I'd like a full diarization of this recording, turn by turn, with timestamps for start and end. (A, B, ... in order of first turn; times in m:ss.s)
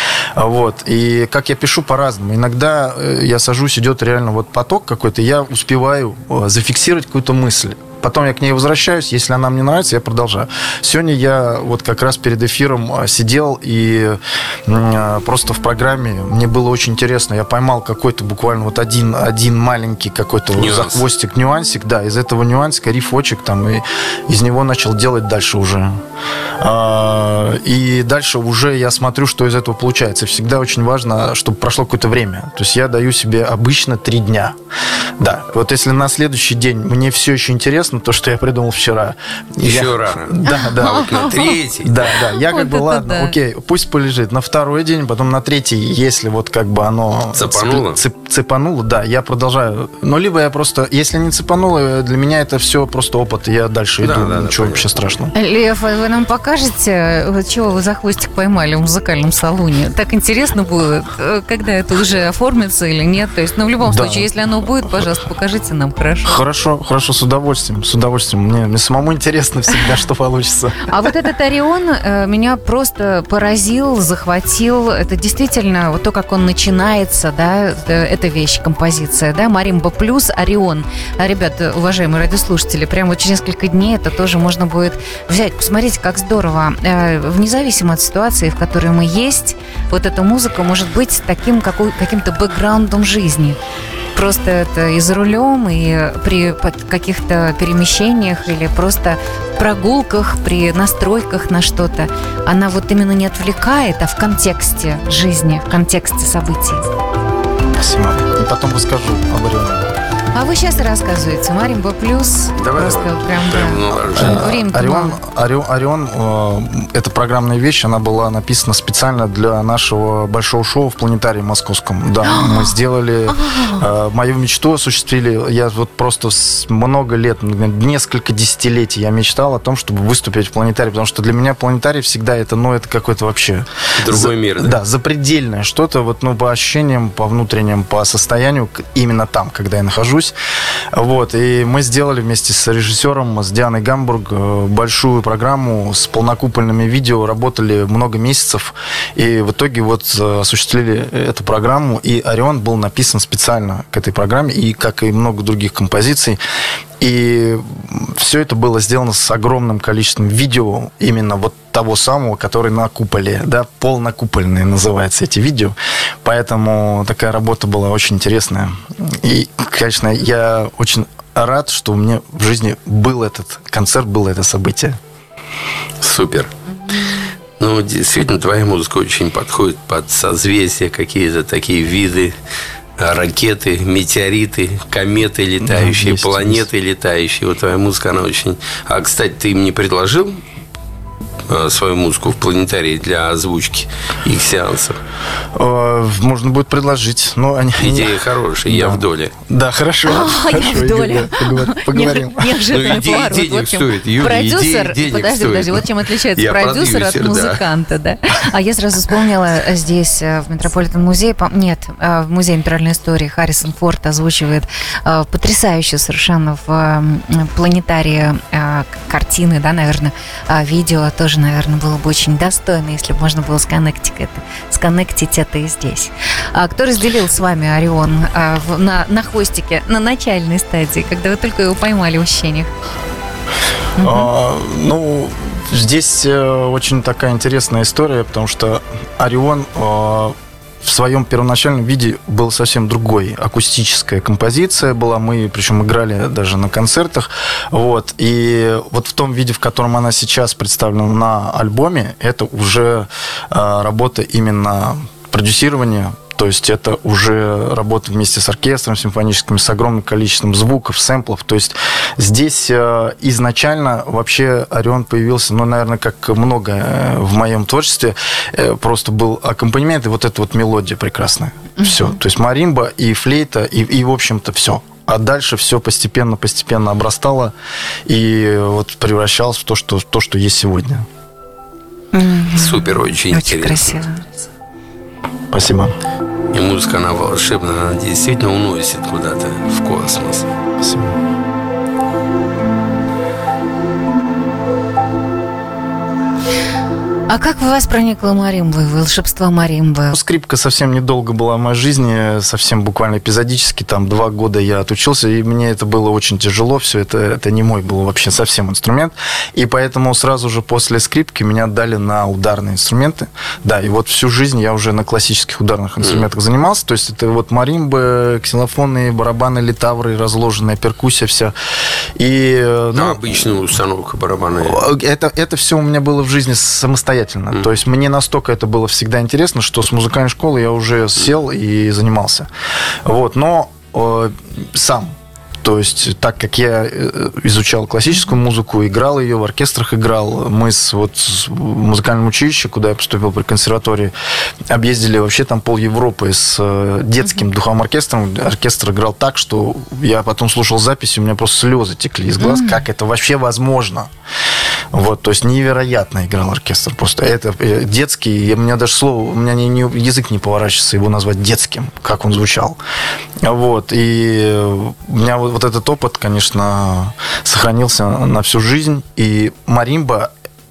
0:00.4-0:26.0 A
0:20.5-0:21.0 B
0:26.6-0:34.6 A
0:35.2-0:55.3 A
0:39.6-0:42.1 B
0:40.4-0:41.6 C
0:42.2-0:43.4 C
0:47.3-0:48.0 B
0:54.0-0:55.1 B
0:55.3-1:06.4 C
1:03.8-1:04.3 A
1:06.3-1:11.1 A
1:10.8-1:33.6 C
1:34.1-1:46.8 C
1:47.8-1:49.9 A
1:50.3-1:55.2 C
1:52.6-1:54.6 B
1:54.2-2:20.3 A
2:02.2-2:02.7 C
2:03.3-2:03.8 C
2:14.0-2:14.8 B
2:20.9-2:36.4 A
2:37.0-2:55.0 A
2:56.0-2:56.5 B
2:57.6-3:02.3 B
3:03.0-3:10.4 B
3:05.6-3:06.6 A
3:11.5-3:15.0 B
3:15.5-3:22.6 A
3:17.8-3:19.3 B
3:20.0-3:52.7 C
3:22.7-3:27.6 B
3:54.0-3:54.3 C
3:54.0-4:37.5 A
4:31.8-4:32.1 C
4:38.0-4:41.0 A
4:42.1-4:44.2 C
4:42.5-4:44.0 B
4:45.5-4:45.9 A
4:46.5-4:50.5 B
4:50.8-4:51.2 A
4:57.3-5:00.1 C
5:00.1-5:21.5 A
5:16.0-5:16.3 B
5:22.2-5:23.6 A
5:22.9-5:24.8 B
5:24.6-5:32.5 A
5:33.0-5:35.1 A
5:35.6-5:44.1 A
5:44.7-5:54.1 A
5:52.4-5:52.8 C
5:54.9-6:02.8 A
6:03.4-6:10.3 A